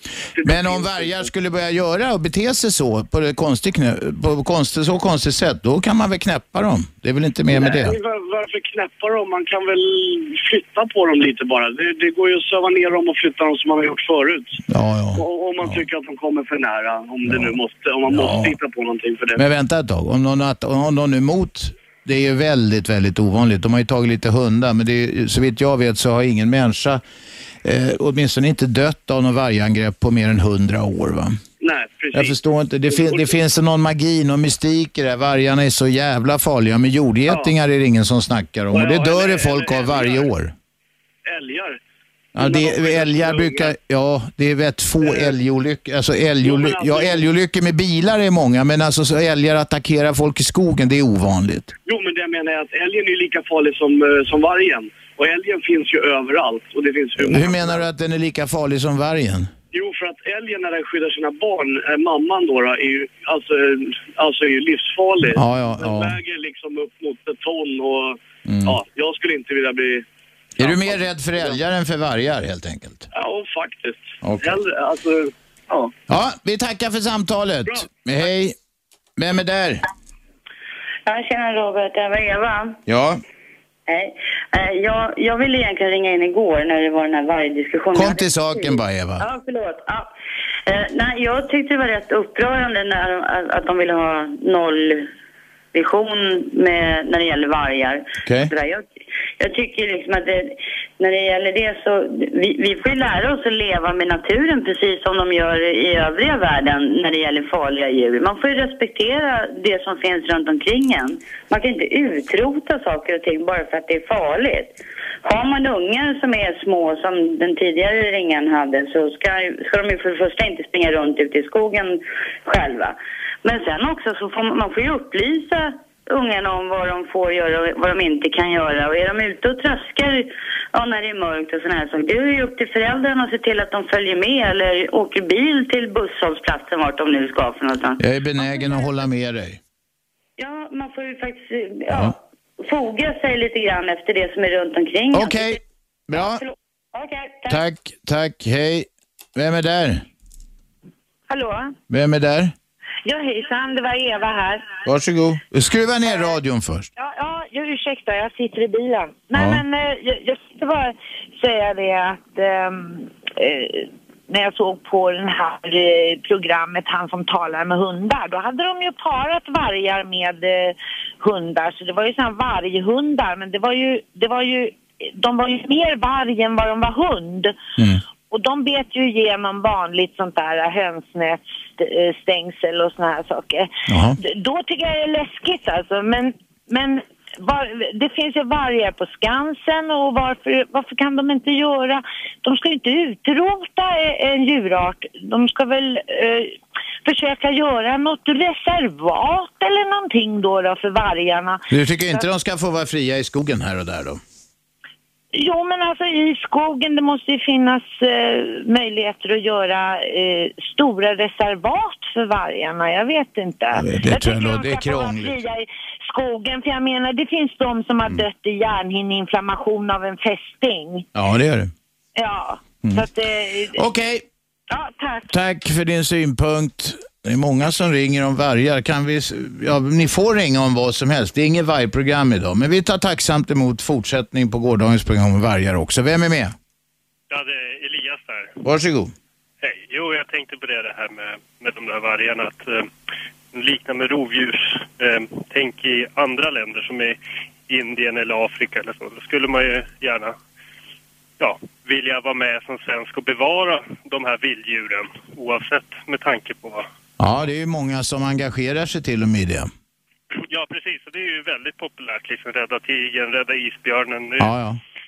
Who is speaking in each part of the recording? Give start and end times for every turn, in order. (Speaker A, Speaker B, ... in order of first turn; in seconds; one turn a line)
Speaker A: 0.4-1.3
Speaker B: 0.4-8.0
Speaker A: 7.5-14.6
Speaker B: 14.7-15.8
Speaker A: 15.2-19.4
Speaker B: 17.3-17.5
Speaker B: 18.1-18.6
Speaker B: 19.4-27.0
Speaker B: 27.6-31.4
Speaker A: 31.6-33.4
Speaker B: 32.1-40.5
Speaker A: 38.7-40.3
Speaker A: 41.2-41.8
Speaker B: 42.3-51.7
Speaker A: 42.4-43.7
Speaker A: 45.0-45.3
Speaker A: 46.4-47.2
Speaker A: 51.9-57.8
Speaker B: 57.2-59.5
Speaker A: 59.7-70.0
Speaker B: 65.3-66.2
Speaker B: 68.4-68.8
Speaker B: 70.6-73.1
Speaker A: 70.6-71.5
Speaker A: 73.1-75.9
Speaker B: 74.2-74.6
Speaker B: 76.1-78.5
Speaker B: 79.2-79.8
Speaker C: 81.0-82.8
Speaker B: 82.8-83.2
Speaker C: 83.9-90.1
Speaker B: 87.9-89.3
Speaker C: 90.7-95.1
Speaker C: 95.7-98.8
Speaker B: 98.2-98.5
Speaker C: 99.4-138.8
Speaker B: 138.0-139.6
Speaker C: 140.4-145.6
Speaker B: 141.9-142.1
Speaker B: 145.1-146.4
Speaker C: 146.1-147.6
Speaker B: 147.5-150.0
Speaker D: 151.3-151.7
Speaker B: 151.9-152.5
Speaker D: 153.0-154.8
Speaker B: 154.8-156.9
Speaker D: 156.9-177.5
Speaker B: 159.3-159.6
Speaker D: 178.3-202.2
Speaker B: 183.9-184.2
Speaker B: 201.7-204.2
Speaker D: 205.3-221.1
Speaker B: 213.8-215.4
Speaker B: 221.1-221.7
Speaker D: 222.2-223.8
Speaker B: 223.7-224.2
Speaker D: 224.7-225.3
Speaker B: 225.3-236.5
Speaker E: 237.3-238.6
Speaker B: 238.6-239.1
Speaker E: 239.6-242.9
Speaker E: 243.5-247.2
Speaker E: 247.7-250.3
Speaker E: 251.4-256.9
Speaker B: 257.2-259.7
Speaker E: 260.4-264.5
Speaker B: 264.4-264.8